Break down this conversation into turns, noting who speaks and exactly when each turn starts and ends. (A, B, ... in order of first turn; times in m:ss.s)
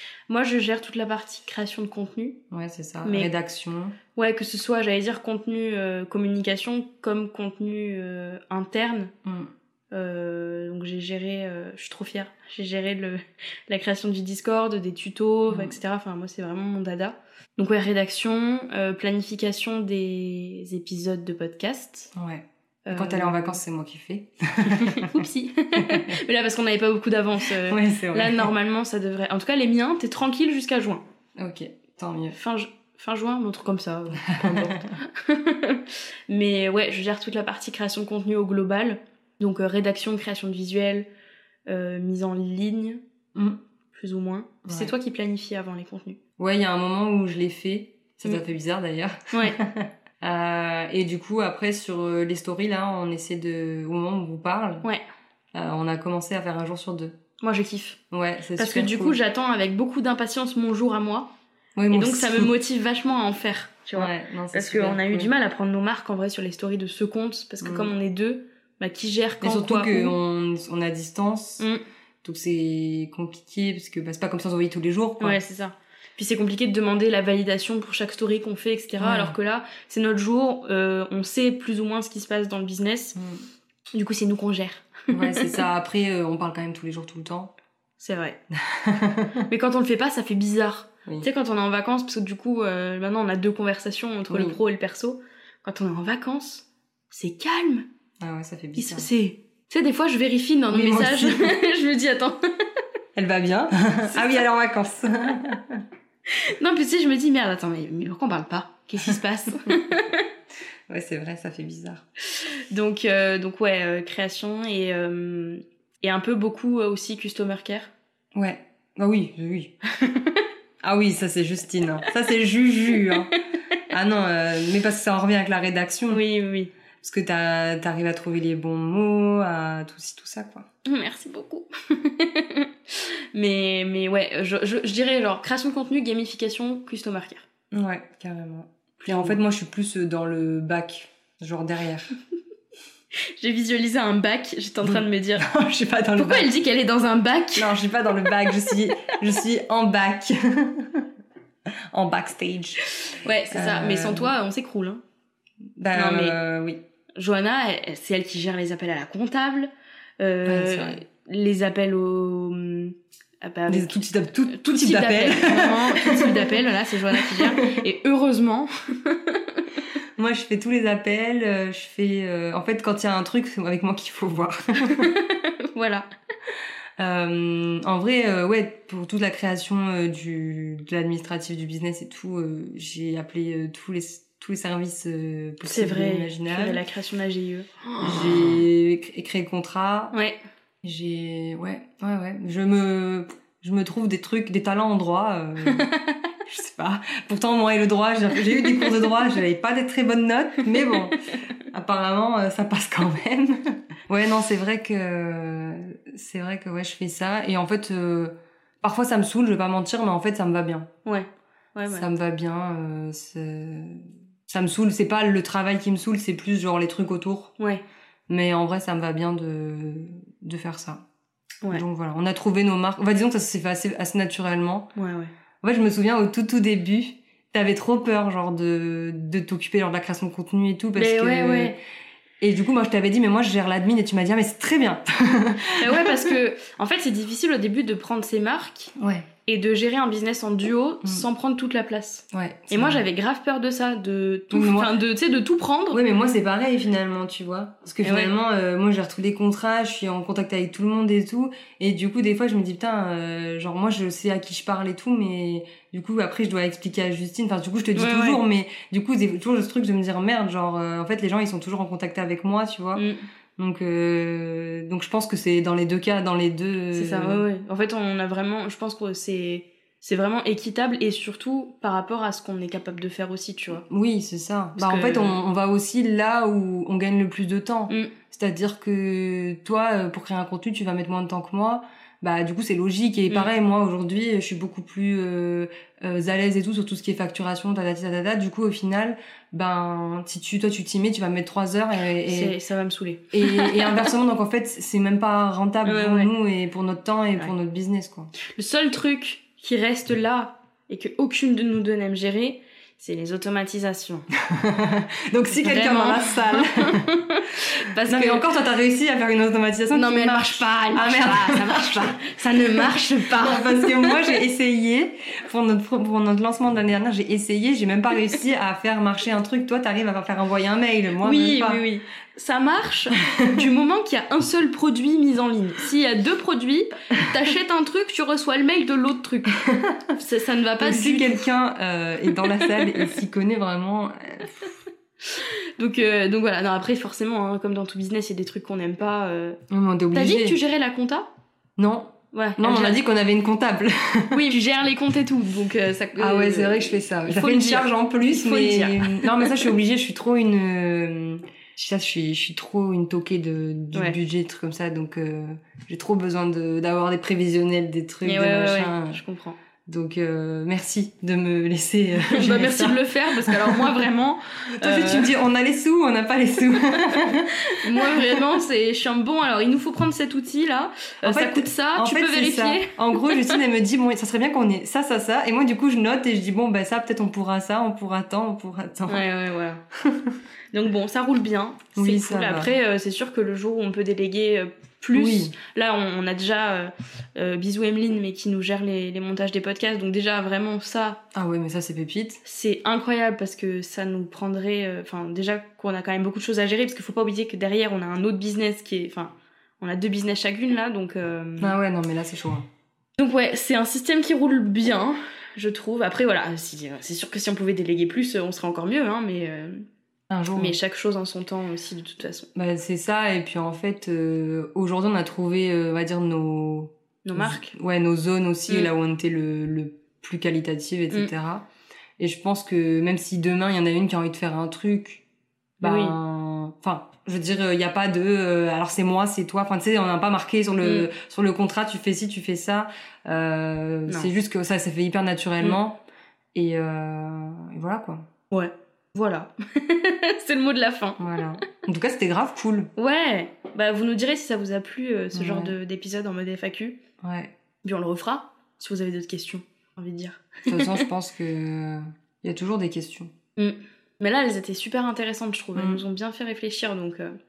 0:00.3-0:02.4 A
0:02.5-0:04.0 B
0:03.0-0:03.3 A
0:04.2-0:09.1 A
0:09.2-0:09.5 B
0:09.9-0:22.1 A
0:15.5-0:15.8 B
0:22.2-0:25.2 B
0:22.9-0:23.6 A
0:24.7-0:31.0 A
0:25.8-0:26.2 B
0:27.5-0:28.5 B
0:31.4-0:32.4 B
0:32.3-0:41.1 A
0:34.4-0:34.8 B
0:41.7-0:43.0 A
0:43.9-0:46.2 A
0:44.6-0:44.9 B
0:46.4-0:54.9 B
0:49.3-0:49.6 A
0:55.5-0:57.2 B
0:57.4-0:58.0 A
0:58.1-0:59.2 B
0:58.6-1:01.3 A
1:01.8-1:02.5 B
1:01.9-1:10.2 A
1:04.0-1:05.3 B
1:07.6-1:07.9 B
1:09.4-1:11.7 B
1:12.2-1:15.4 B
1:15.2-1:23.2 A
1:19.0-1:19.4 B
1:23.2-1:23.4 B
1:23.9-1:25.6 A
1:25.1-1:27.5 B
1:28.0-1:28.4 A
1:28.5-1:29.5 B
1:29.5-1:37.9 A
1:34.3-1:34.6 B
1:38.2-1:39.1 B
1:38.8-1:42.4 A
1:40.7-1:41.5 B
1:43.2-1:45.8 B
1:46.3-1:50.2 A
1:50.9-1:52.0 B
1:52.4-1:57.9 A
1:58.3-1:59.7 B
2:00.0-2:00.4 A
2:00.8-2:03.4 B
2:03.9-2:06.2 B
2:06.1-2:06.7 A
2:07.0-2:10.7 B
2:10.8-2:17.5 A
2:17.7-2:22.1 B
2:19.0-2:19.4 A
2:23.4-2:25.5 A
2:24.8-2:26.5 B
2:26.2-2:27.8 A
2:27.6-2:31.1 B
2:31.9-2:32.8 B
2:33.0-2:35.0 A
2:33.5-2:34.3 B
2:35.8-2:36.8 B
2:35.9-2:36.4 A
2:37.2-2:49.8 A
2:40.4-2:41.0 B
2:43.7-2:46.6 B
2:47.1-2:47.8 B
2:50.2-2:55.1 B
2:54.8-2:56.1 A
2:57.0-3:06.8 B
3:05.6-3:08.3 A
3:08.0-3:10.2 B
3:10.8-3:15.9 B
3:15.6-3:16.2 A
3:16.5-3:21.2 B
3:21.7-3:30.9 B
3:31.0-3:32.1 A
3:31.9-3:37.5 B
3:38.3-3:41.0 B
3:41.7-3:44.9 B
3:45.0-3:45.3 A
3:45.6-3:51.8 B
3:51.0-3:51.7 A
3:52.4-3:56.4 B
3:55.6-3:58.9 A
3:59.0-3:59.3 B
3:59.5-4:06.0 A
4:02.3-4:03.0 B
4:04.5-4:04.9 B
4:05.9-4:23.0 B
4:08.0-4:08.3 A
4:18.0-4:18.4 A
4:23.0-4:23.2 A
4:23.6-4:27.4 B
4:26.9-4:33.8 A
4:33.9-4:52.5 B
4:34.8-4:35.4 A
4:52.3-4:54.1 A
4:53.3-4:58.3 B
4:55.8-4:56.3 A
4:58.5-5:04.3 A
5:04.4-5:07.1 B
5:05.5-5:08.4 A
5:08.1-5:21.8 B
5:09.9-5:14.2 A
5:21.2-5:29.6 A
5:23.2-5:23.6 B
5:29.5-5:30.0 B
5:30.2-5:31.5 A
5:30.8-5:34.8 B
5:35.2-5:39.6 A
5:39.7-5:40.6 B
5:40.1-5:41.3 A
5:41.8-5:44.6 B
5:42.3-5:43.0 A
5:44.3-5:49.7 A
5:46.2-5:59.2 B
5:58.2-5:59.6 A
5:59.9-6:04.0 B
6:02.2-6:05.4 A
6:04.8-6:08.6 B
6:07.5-6:13.6 A
6:11.2-6:19.2 B
6:19.1-6:19.8 A
6:20.0-6:20.4 B
6:20.7-6:31.2 A
6:22.0-6:22.8 B
6:25.1-6:25.5 B
6:31.3-6:32.4 B
6:32.4-6:41.8 A
6:41.6-6:42.7 B
6:43.2-6:49.8 A
6:50.3-6:50.8 B
6:50.6-6:52.5 A
6:52.6-7:01.7 B
6:57.2-6:57.8 A
7:02.2-7:05.2 B
7:05.8-7:06.2 A
7:05.8-7:16.0 B
7:10.8-7:11.1 A
7:16.5-7:18.2 B
7:18.5-7:21.2 A
7:21.2-7:22.9 B
7:23.0-7:27.0 A
7:25.3-7:25.8 B
7:27.2-7:27.5 B
7:27.8-7:31.0 A
7:30.7-7:33.3 B
7:33.6-7:37.4 A
7:35.8-7:36.0 B